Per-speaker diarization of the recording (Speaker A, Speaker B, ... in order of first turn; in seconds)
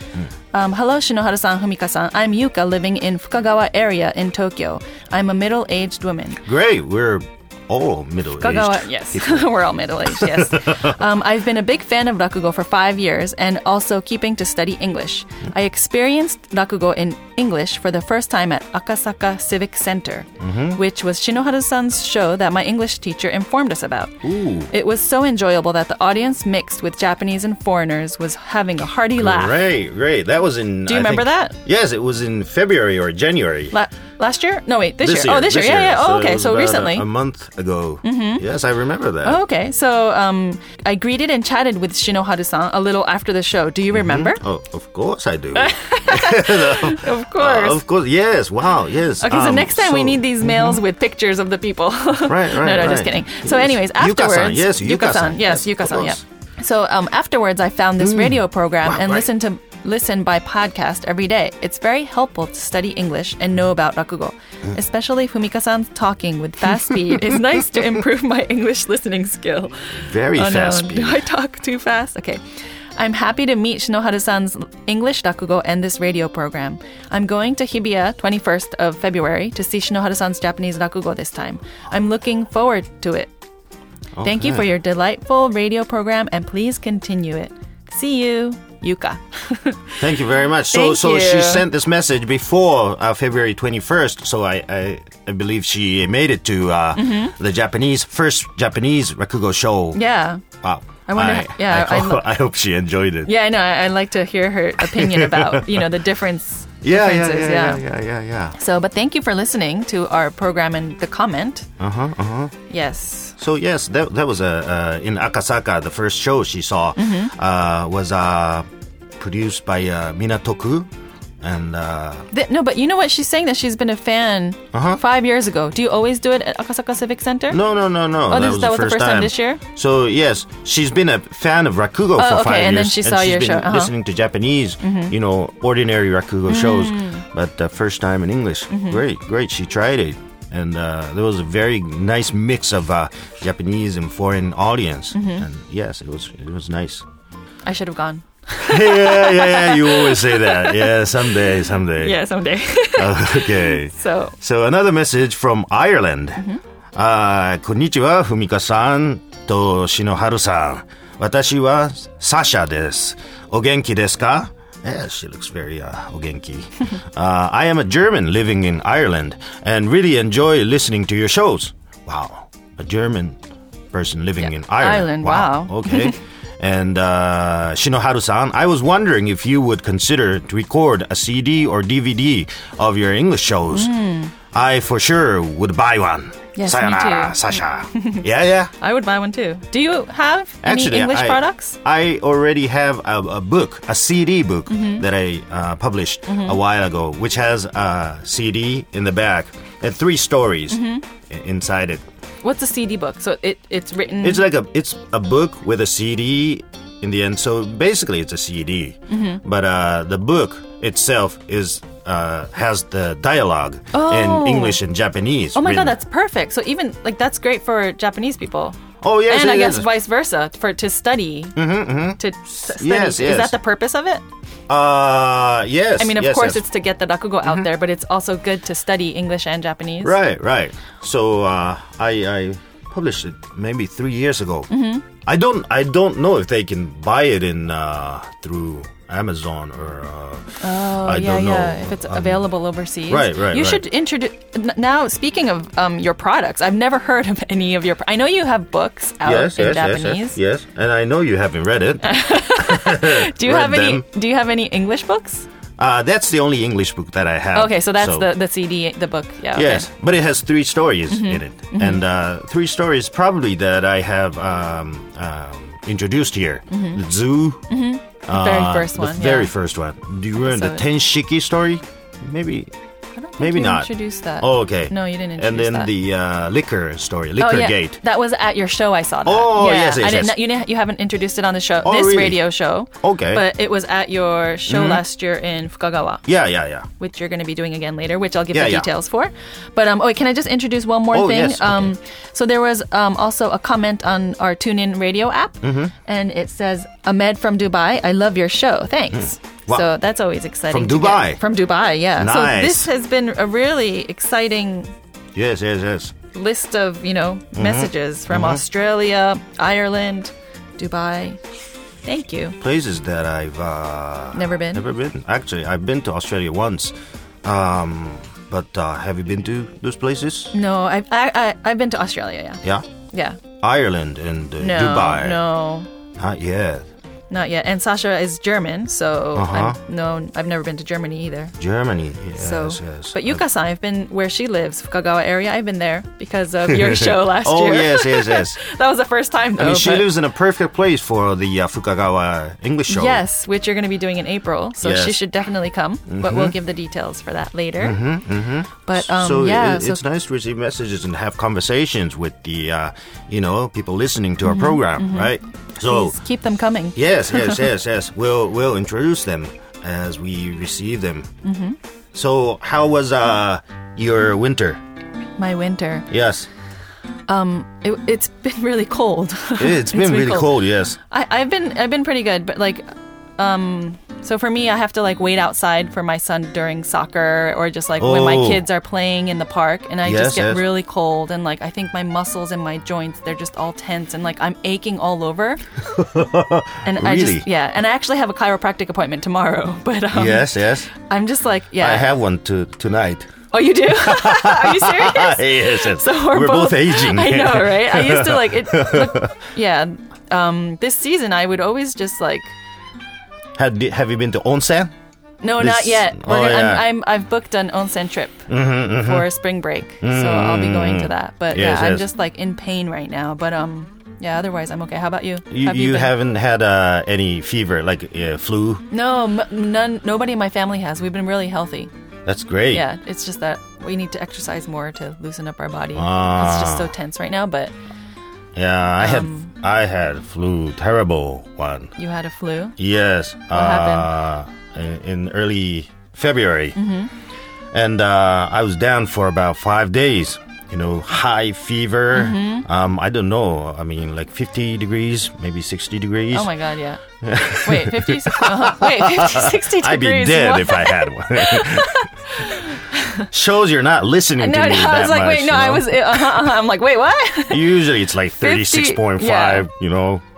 Speaker A: 0.5-6.4, 8.4-24.2, 24.7-29.6, 30.9-31.6, 33.7-37.1, 38.0-38.4, 39.2-44.4, 45.5-47.8, 49.2-72.4, 73.0-83.3, 84.2-90.0, 90.7-91.7, 96.9-97.3, 99.9-100.4, 101.1-102.2, 103.2-107.8, 108.5-111.7, 112.7-113.3, 117.0-117.3, 122.3-127.6, 128.3-129.6, 132.2-133.9, 134.8-135.1, 136.5-137.2, 138.7-139.0, 145.1-145.4, 147.6-151.1, 151.9-154.3, 174.4-176.2, 183.7-184.3, 186.5-188.3, 188.8-191.8, 194.7-195.0, 196.3-196.6, 200.7-201.0, 202.4-204.4, 209.1-209.4, 213.9-214.8, 215.5-221.6, 222.2-224.2, 226.0-230.2, 234.7-235.0, 240.6-250.4, 252.0-255.4, 257.5-259.9, 261.1-262.0, 266.7-267.0, 267.7-269.5, 270.4-270.8, 273.1-275.9, 277.4-286.2, 287.0-304.9, 306.3-311.4, 312.0-312.6, 314.3-314.8, 320.5-323.4, 324.6-325.9, 327.3-331.5, 332.4-340.1, 342.9-348.0, 348.9-350.0, 354.4-355.3, 355.8-357.6, 361.4-361.8, 365.4-366.1, 367.3-370.6, 371.1-372.9, 373.4-385.6, 386.8-392.1, 393.5-402.5, 405.4-416.1, 418.9-421.9, 422.7-427.7, 429.0-429.5, 432.0-432.8, 433.5-434.1, 436.8-437.1, 442.1-442.6, 446.3-447.0, 447.6-453.2, 454.4-457.8, 458.4-459.7
Speaker B: 6.4-9.5, 10.0-10.9, 20.4-20.8, 24.2-24.7, 29.2-33.7, 35.0-39.4, 43.9-50.8, 52.2-56.2, 58.0-59.2, 70.0-71.2, 84.2-84.7, 90.0-100.0, 100.6-103.3, 104.8-105.9, 106.8-108.6, 111.8-112.5, 113.4-118.7, 119.2-120.9, 121.4-122.3, 124.7-125.0, 127.5-147.0, 148.6-152.2, 153.0-173.4, 173.9-183.9, 184.5-188.7, 190.6-202.0, 204.2-216.0, 219.0-219.9, 221.6-222.2, 222.7-223.6, 224.7-226.7, 230.0-234.7, 235.2-242.4, 243.1-243.8, 249.2-254.0, 255.8-258.3, 259.5-267.6, 268.2-272.7, 273.4-278.0, 279.2-280.4, 281.8-282.4, 283.0-283.4, 284.7-285.0, 286.2-286.9, 288.5-288.9, 291.1-291.9, 295.6-295.9, 299.1-299.9, 300.7-301.4, 302.2-302.9, 305.3-306.1, 307.5-308.6, 312.6-320.5, 323.6-325.4, 326.2-326.8, 329.3-329.8, 331.6-333.4, 336.7-338.6, 339.6-343.2, 344.8-345.2, 346.1-346.5, 347.8-356.2, 356.9-361.3, 362.1-364.8, 366.1-366.5, 369.6-371.0, 378.0-378.6, 380.0-380.7, 385.9-387.5, 390.1-390.9, 391.8-393.3, 393.9-399.3, 403.6-404.9, 405.6-406.9, 408.5-409.3, 410.0-412.1, 415.5-418.8, 422.2-422.9, 425.9-426.9, 428.6-431.9, 432.8-436.8, 437.7-446.5, 447.2-452.1, 453.3-456.5, 457.5-460.2